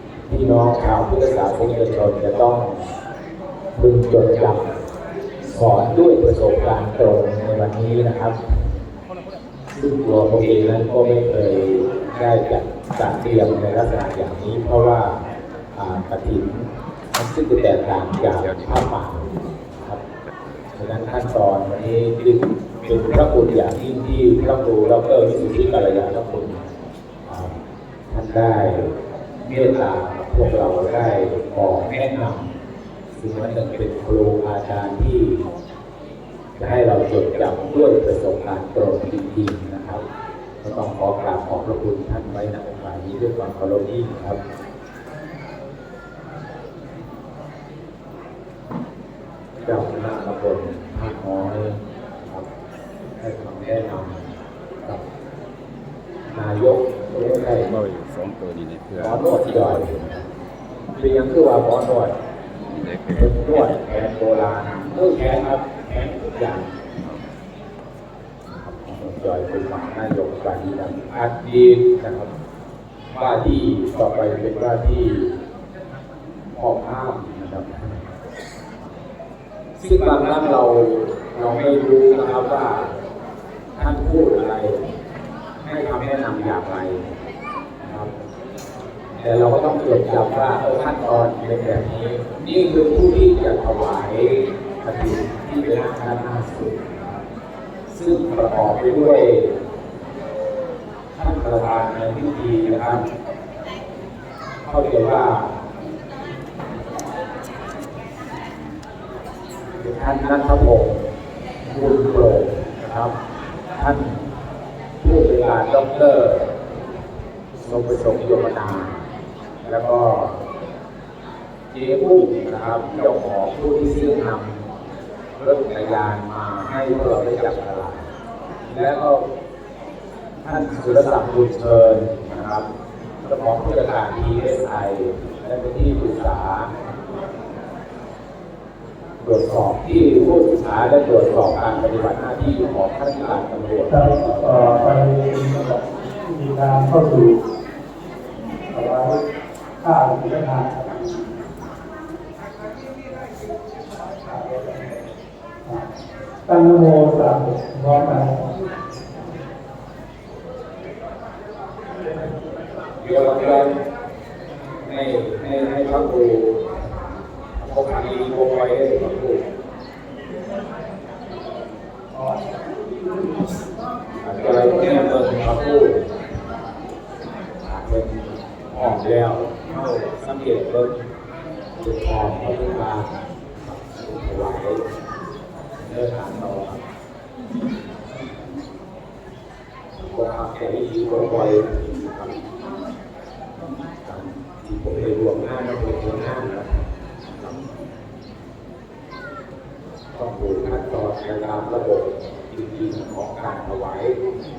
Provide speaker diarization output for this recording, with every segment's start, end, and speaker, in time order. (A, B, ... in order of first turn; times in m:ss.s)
0:00.3-0:02.8 A
0:03.7-0:04.7 A
0:05.5-0:08.4 A
0:09.7-0:15.2 A
0:15.7-0:20.0 A
0:20.8-0:26.7 A
0:27.2-0:27.5 A
0:28.1-0:28.9 A
0:29.4-0:32.5 A
0:33.1-0:35.4 A
0:36.6-0:40.0 A
0:40.6-0:44.4 A
0:49.6-0:52.4 A
0:53.2-0:54.2 A
0:56.3-0:57.7 A
0:57.6-1:00.1 B
0:59.0-1:00.2 A
1:01.0-1:02.1 A
1:02.6-1:03.7 B
1:03.1-1:06.7 A
1:07.0-1:07.2 B
1:08.6-1:12.3 A
1:13.1-1:15.4 A
1:16.6-1:18.1 A
1:19.8-1:22.9 A
1:23.8-1:24.8 A
1:25.6-1:27.0 A
1:27.8-1:28.1 A
1:29.2-1:37.2 A
1:37.9-1:39.5 A
1:41.1-1:43.0 A
1:44.7-1:45.6 A
1:49.8-1:51.0 A
1:51.6-1:53.1 A
1:53.8-1:54.2 A
1:55.0-1:56.5 A
1:57.6-1:59.0 A
1:59.6-2:00.4 A
2:01.7-2:04.7 A
2:05.4-2:08.0 A
2:08.7-2:09.2 A
2:10.4-2:12.7 A
2:13.2-2:16.7 A
2:19.2-2:24.9 A
2:23.9-2:27.4 C
2:28.7-2:29.2 C
2:29.8-2:31.1 C
2:34.2-2:35.0 C
2:36.5-2:38.5 C
2:43.0-2:43.8 A
2:44.8-2:46.6 A
2:47.6-2:49.4 A
2:54.2-2:56.0 A
2:57.6-3:01.0 A
3:01.8-3:04.8 A
3:05.8-3:06.8 A
3:10.0-3:12.4 A
3:14.0-3:16.7 A
3:20.1-3:24.2 A